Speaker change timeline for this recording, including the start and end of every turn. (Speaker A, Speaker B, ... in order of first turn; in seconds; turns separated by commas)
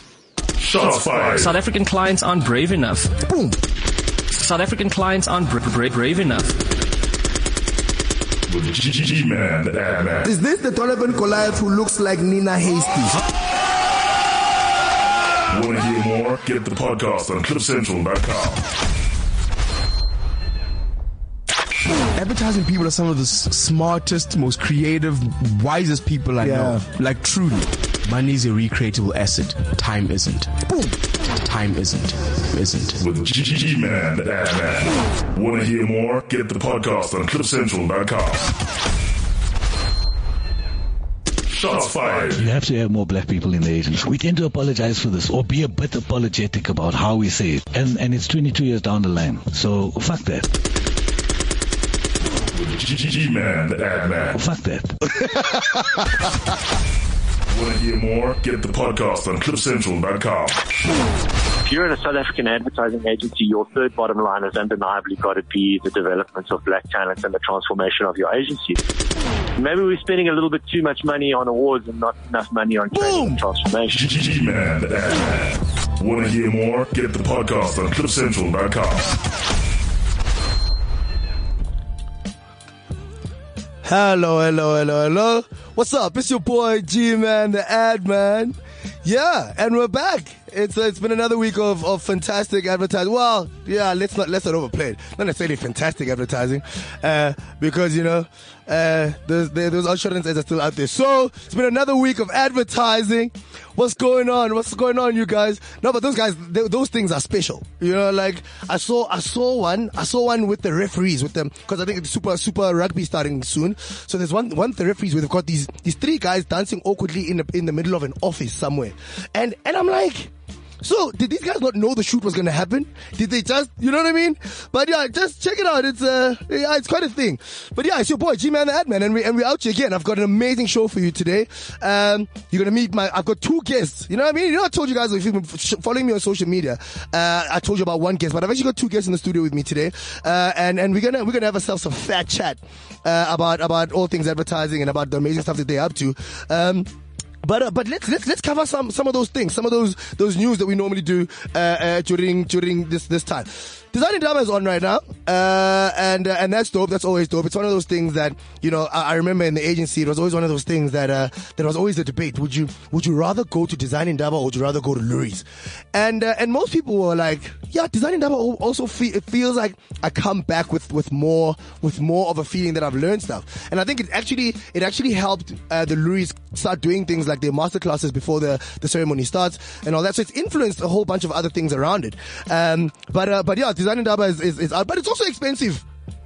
Speaker A: 0.6-1.5, Speaker B: 1.3-3.2, Speaker C: 3.3-3.5, Speaker B: 4.3-6.6, Speaker A: 8.5-10.3, Speaker C: 10.2-13.2, Speaker A: 15.5-18.6, Speaker D: 22.1-33.0, Speaker C: 26.4-26.8, Speaker A: 33.0-38.5, Speaker A: 41.5-42.5, Speaker E: 42.4-50.5, Speaker A: 52.5-54.4, Speaker E: 54.3-54.9, Speaker A: 57.5-60.6, Speaker F: 61.6-68.8, Speaker F: 69.5-74.0, Speaker C: 73.0-73.3, Speaker A: 73.9-79.2, Speaker C: 83.8-146.9, Speaker C: 147.4-185.8